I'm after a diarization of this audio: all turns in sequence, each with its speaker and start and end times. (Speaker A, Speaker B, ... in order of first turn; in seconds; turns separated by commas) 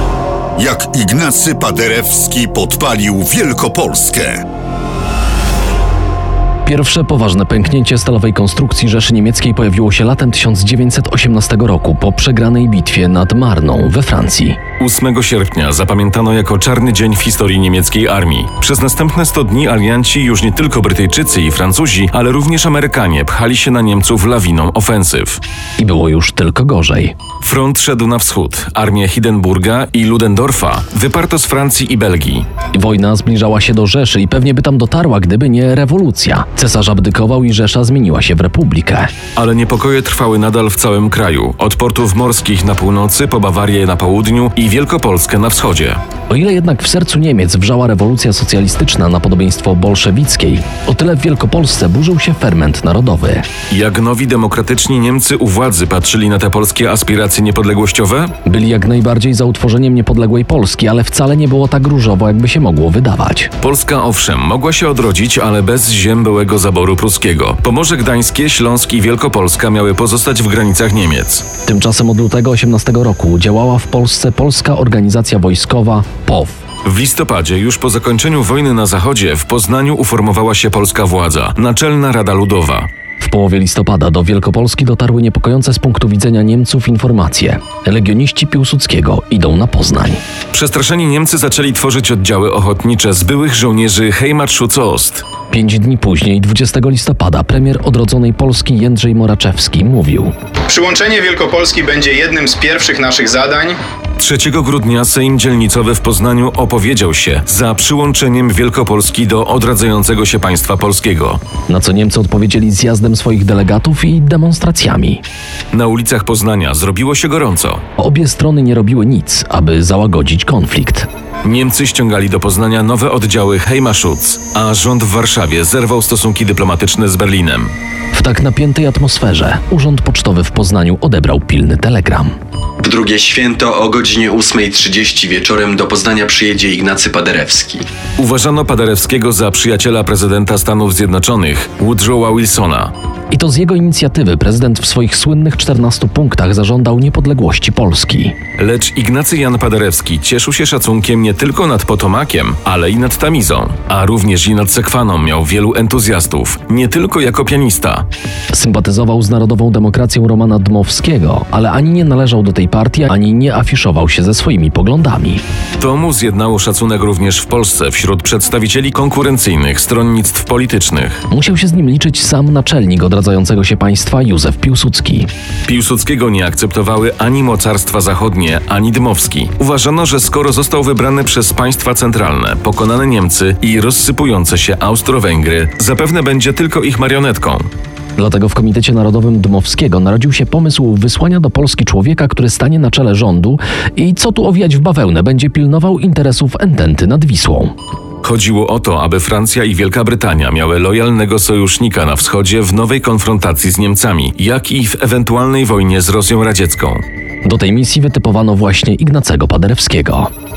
Speaker A: 0.6-4.4, Speaker B: 6.7-14.6, Speaker C: 14.8-25.4, Speaker B: 25.8-27.1, Speaker C: 27.4-32.5, Speaker B: 32.7-39.1, Speaker C: 39.4-46.0, Speaker B: 46.3-53.5, Speaker C: 53.7-58.3, Speaker B: 58.5-63.5, Speaker C: 63.6-71.5, Speaker B: 71.7-76.6, Speaker C: 76.8-82.9, Speaker B: 83.2-90.2, Speaker C: 90.5-95.2, Speaker B: 95.5-100.3, Speaker D: 100.7-103.8, Speaker C: 104.2-111.4, Speaker B: 111.7-115.2, Speaker C: 115.7-117.8, Speaker B: 118.0-121.1, Speaker C: 121.4-127.7, Speaker B: 128.1-132.3, Speaker E: 132.8-137.8, Speaker C: 138.2-142.9, Speaker B: 143.3-148.4, Speaker C: 148.6-158.1, Speaker B: 158.5-165.4, Speaker C: 165.8-171.2, Speaker B: 171.3-175.3, Speaker C: 175.7-187.7, Speaker B: 188.2-197.7, Speaker C: 198.2-207.0, Speaker B: 207.4-210.3